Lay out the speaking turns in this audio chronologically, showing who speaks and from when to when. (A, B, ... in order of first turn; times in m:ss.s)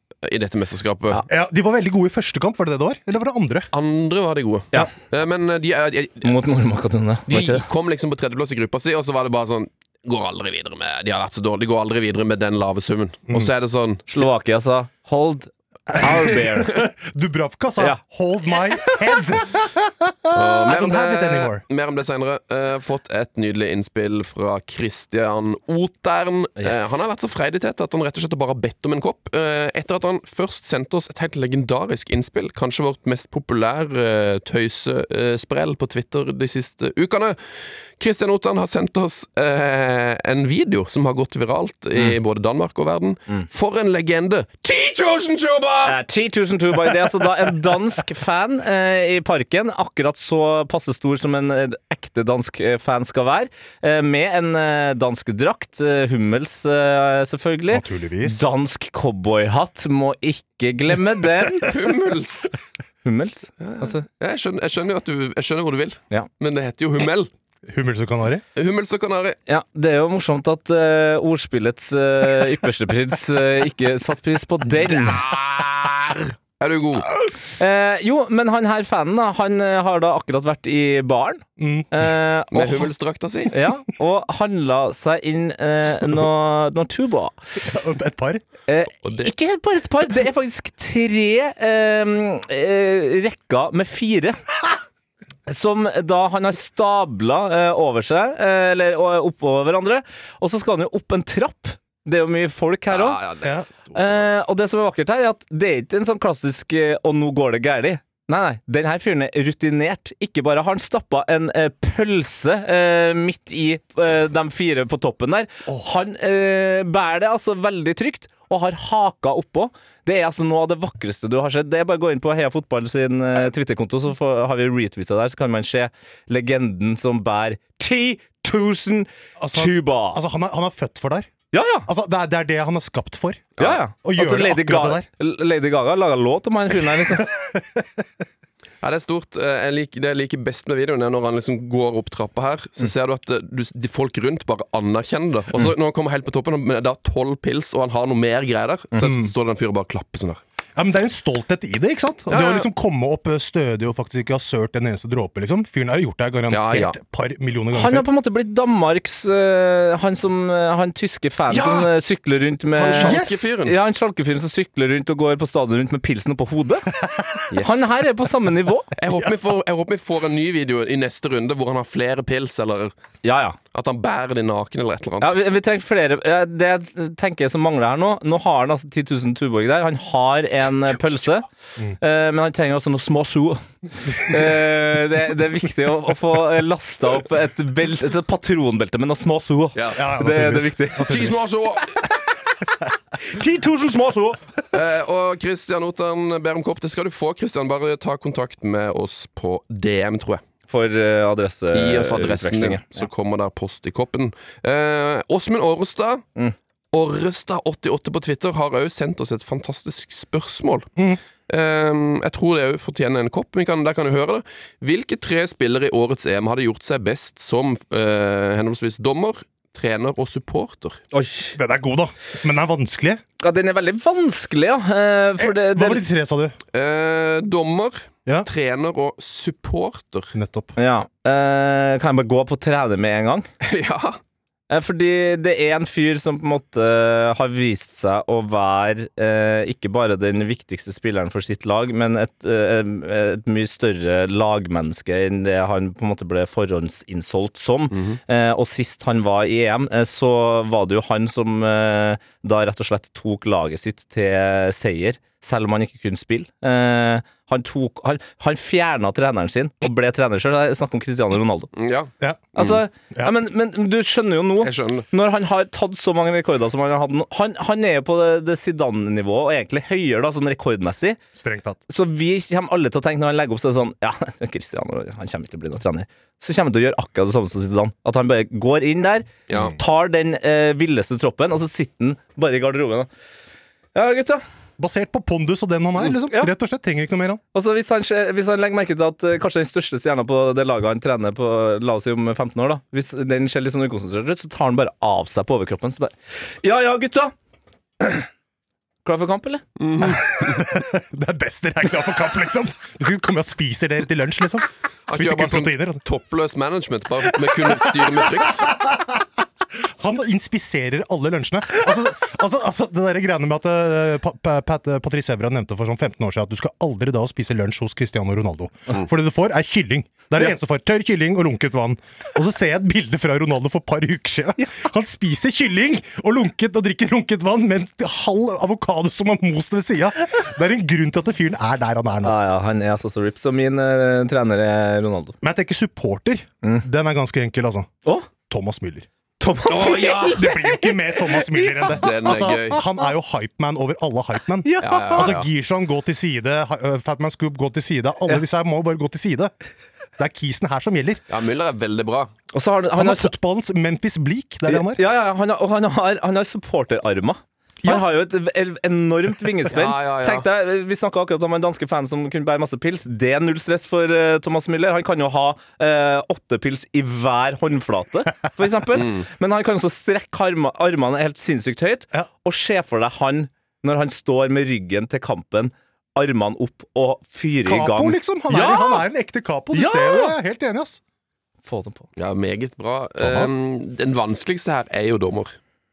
0:00.2-0:01.2 A
0:01.3-0:03.7 B
0:03.7-0:06.3 A
0:06.2-0:07.6 C
0:07.3-0:14.3 A
0:14.1-0:16.8 C
0:15.9-0:21.6 B
0:20.3-0:37.4 A
0:26.6-0:26.9 C
0:38.0-0:46.0 A
0:45.8-1:01.7 C
0:57.7-0:58.4 B
1:01.6-1:02.5 A
1:03.0-1:04.0 C
1:03.6-1:07.3 A
1:07.7-1:08.4 B
1:08.5-1:09.4 A
1:09.5-1:15.2 C
1:14.8-1:17.1 A
1:17.6-1:22.9 C
1:21.6-1:21.9 B
1:22.5-1:23.5 A
1:23.5-1:27.4 C
1:27.6-1:28.4 B
1:28.7-1:34.4 C
1:29.0-1:29.3 A
1:35.5-1:43.2 C
1:42.9-1:44.4 A
1:43.9-2:10.2 C
1:55.7-1:56.0 B
2:09.4-2:11.3 B
2:11.5-2:11.9 C
2:11.8-2:13.5 B
2:13.6-2:17.3 C
2:14.0-2:15.1 B
2:17.0-2:17.8 B
2:18.8-2:30.4 A
2:29.0-2:29.3 B
2:30.8-2:38.0 B
2:32.3-2:32.7 A
2:36.5-2:37.0 A
2:37.7-2:46.9 C
2:41.5-2:41.9 A
2:42.7-2:43.8 A
2:43.0-2:43.5 B
2:47.0-2:47.8 B
2:47.5-2:48.9 C
2:49.0-2:52.9 A
2:53.2-2:53.6 C
2:53.7-2:55.3 A
2:55.2-3:01.4 C
3:02.0-3:11.2 C
3:09.7-3:10.0 A
3:10.0-3:11.4 B
3:11.0-3:12.0 A
3:13.2-3:14.4 C
3:14.7-3:20.4 A
3:20.7-3:23.1 C
3:21.7-3:26.2 A
3:26.9-3:30.9 A
3:31.5-3:41.0 A
3:41.1-3:41.6 C
3:41.5-3:43.2 B
3:43.4-3:46.0 C
3:45.4-3:46.6 B
3:46.7-3:50.3 A
3:50.3-3:50.7 B
3:50.8-3:53.5 C
3:53.6-3:54.2 A
3:54.7-4:21.7 C
4:07.9-4:08.2 A
4:21.7-4:22.8 A
4:22.2-4:22.5 B
4:22.5-4:31.2 C
4:24.6-4:25.1 A
4:31.4-4:31.8 B
4:31.9-4:43.1 C
4:39.5-4:39.7 A
4:43.9-4:44.4 C
4:44.8-4:47.4 B
4:46.0-4:46.5 C
4:47.5-4:57.3 C
4:58.0-4:58.3 C
4:59.0-4:59.6 C
4:59.8-5:00.7 A
5:00.1-5:06.0 B
5:05.1-5:08.7 A
5:07.3-5:09.2 B
5:09.7-5:32.4 B
5:32.2-5:35.3 C
5:35.4-5:37.9 B
5:38.5-5:39.1 B
5:39.4-5:42.5 C
5:39.7-5:40.4 A
5:40.2-5:49.5 B
5:41.9-5:42.8 A
5:44.6-5:45.3 C
5:44.8-5:45.5 A
5:50.2-5:51.2 B
5:51.3-5:52.3 A
5:52.5-5:53.3 C
5:53.0-5:55.0 B
5:54.7-6:19.0 C
5:59.7-6:00.5 A
6:09.0-6:09.2 A
6:17.6-6:21.0 B
6:19.7-6:20.4 C
6:21.6-6:22.0 C
6:22.2-6:25.5 A
6:23.2-6:23.5 B